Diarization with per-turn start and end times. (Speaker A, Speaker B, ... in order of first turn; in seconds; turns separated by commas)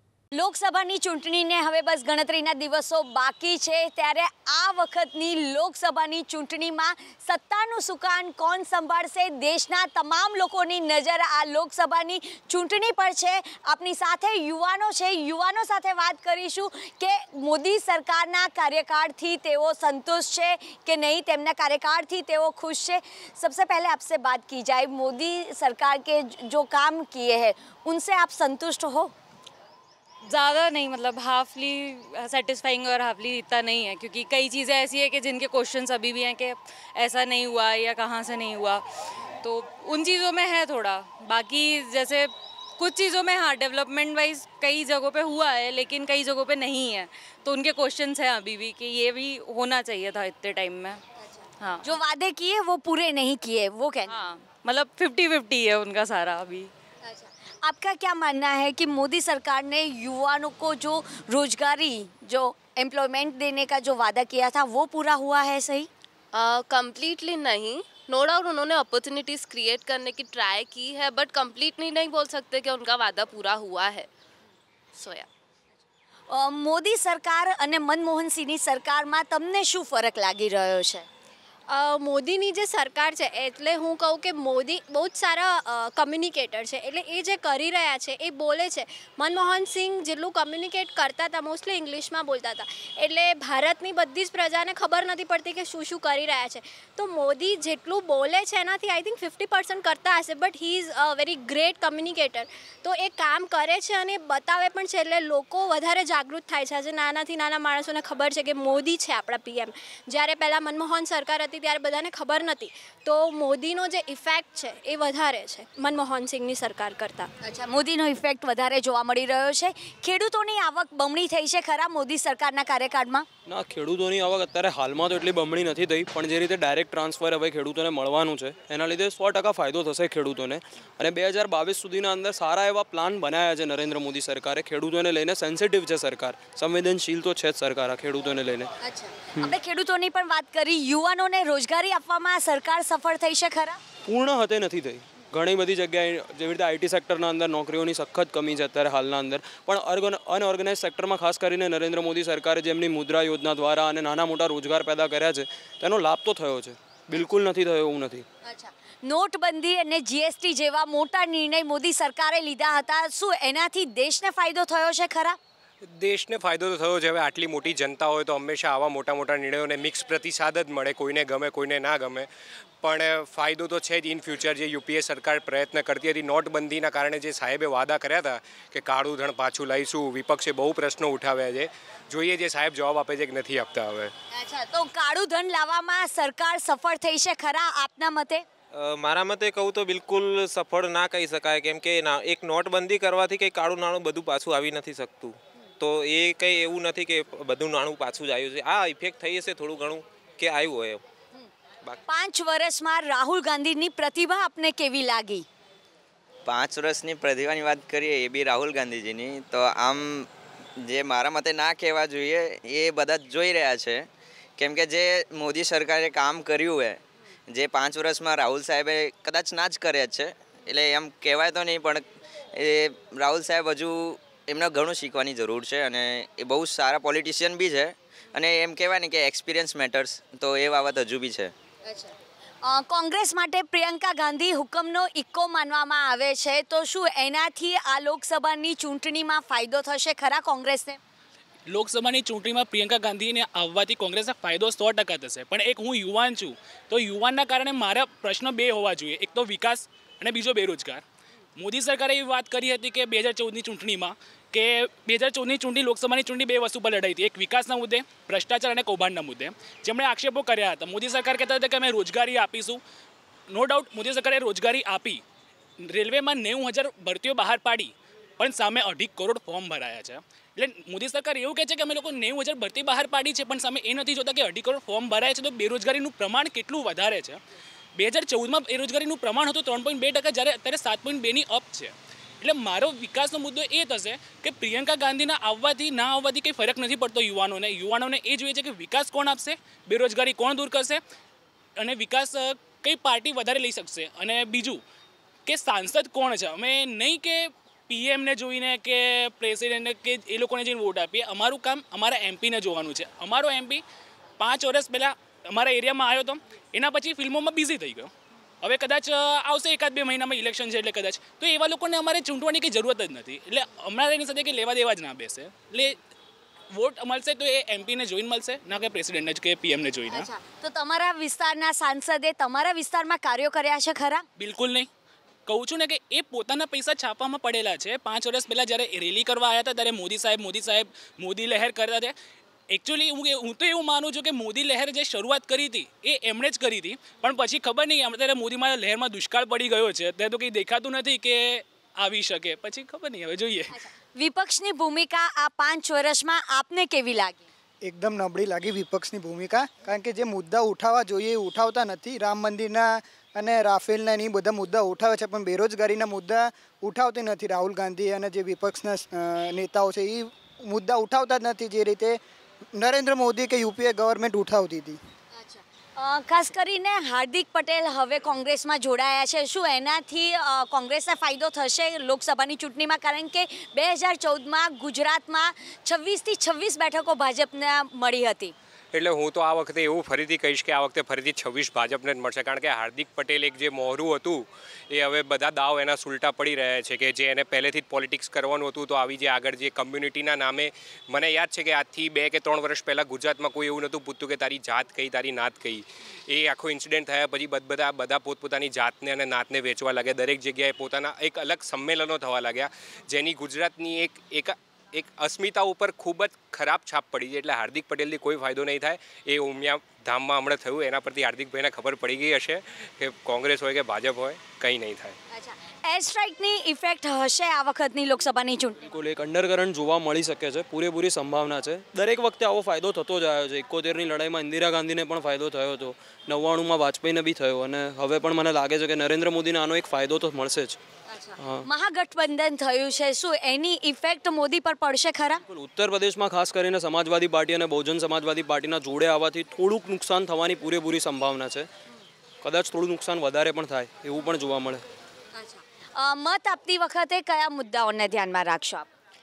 Speaker A: 0.3-29.1, Speaker B: 30.2-38.8, Speaker B: 39.4-51.0, Speaker B: 51.6-51.9, Speaker A: 51.8-54.1, Speaker B: 54.1-56.7, Speaker A: 57.0-65.9, Speaker C: 66.4-74.1, Speaker C: 75.0-75.3, Speaker A: 76.3-81.0, Speaker D: 81.7-117.3, Speaker A: 117.4-123.2, Speaker E: 123.5-138.7, Speaker A: 138.8-143.8, Speaker E: 144.0-158.2, Speaker A: 158.4-165.4, Speaker F: 165.8-172.3, Speaker F: 172.8-184.1, Speaker A: 184.3-188.4, Speaker G: 188.7-201.0, Speaker A: 202.1-205.4, Speaker H: 206.4-210.3, Speaker H: 210.8-214.1, Speaker H: 214.6-222.0, Speaker H: 222.6-231.5, Speaker A: 231.9-232.1, Speaker A: 232.6-241.0, Speaker I: 241.7-251.0, Speaker I: 251.6-262.8, Speaker I: 263.5-265.2, Speaker I: 265.8-277.4, Speaker I: 278.0-291.0, Speaker I: 291.8-294.8, Speaker I: 295.4-303.8, Speaker I: 304.4-316.0, Speaker I: 316.7-320.3, Speaker A: 320.1-324.2, Speaker I: 324.4-324.9, Speaker I: 325.5-332.1, Speaker I: 332.7-343.7, Speaker A: 344.1-347.4, Speaker J: 347.8-362.2, Speaker J: 362.7-365.0, Speaker A: 365.4-378.5, Speaker F: 378.9-415.1, Speaker A: 415.3-418.8, Speaker E: 418.8-430.8, Speaker A: 431.1-435.4, Speaker E: 431.4-431.7, Speaker E: 435.5-441.7, Speaker E: 442.4-444.8, Speaker A: 445.4-448.9